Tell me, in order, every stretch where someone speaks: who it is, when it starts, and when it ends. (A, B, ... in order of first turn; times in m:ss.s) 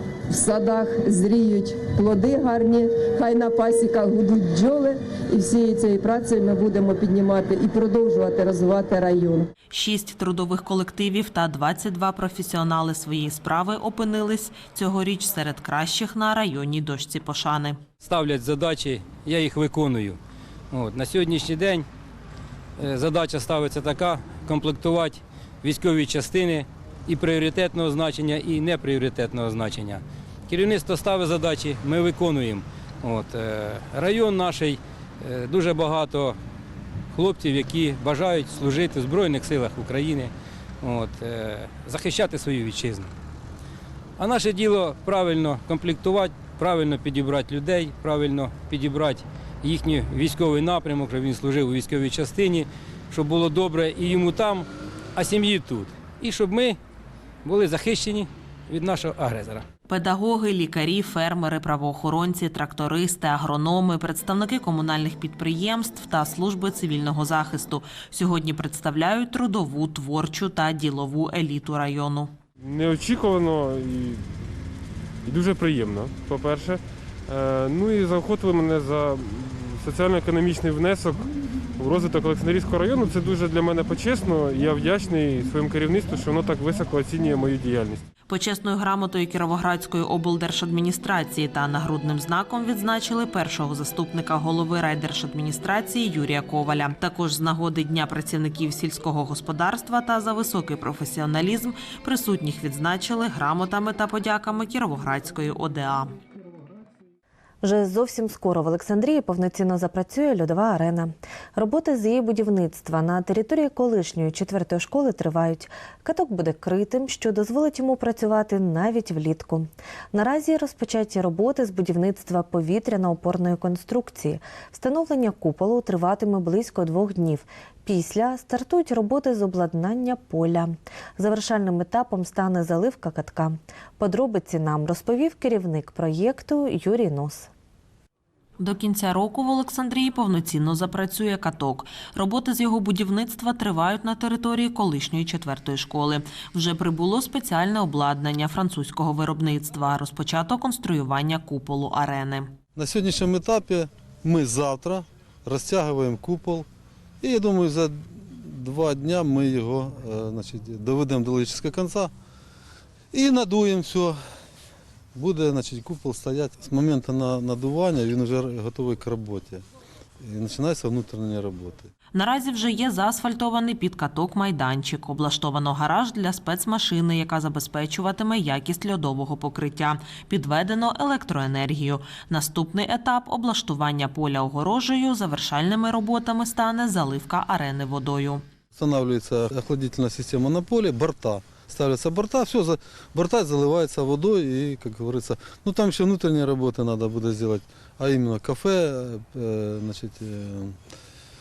0:00.3-0:09.5 A
0:09.7-0:17.8 B
0:18.0-0:20.2 C
0:20.7-0:21.9 C
0:22.8-0:36.4 C
0:37.1-0:43.1 C
0:44.2-0:56.8 C
0:57.4-0:59.6 C
0:59.9-1:12.3 B
1:12.6-1:14.2 D
1:15.2-1:28.0 D
1:28.3-1:46.1 B
1:47.6-2:17.5 E
2:18.6-2:32.5 B
2:32.8-2:36.7 F
2:37.2-2:42.1 F
2:43.1-2:44.2 F
2:45.1-2:49.6 F
2:50.2-2:51.9 F
2:52.1-3:08.4 B
3:08.7-3:20.8 F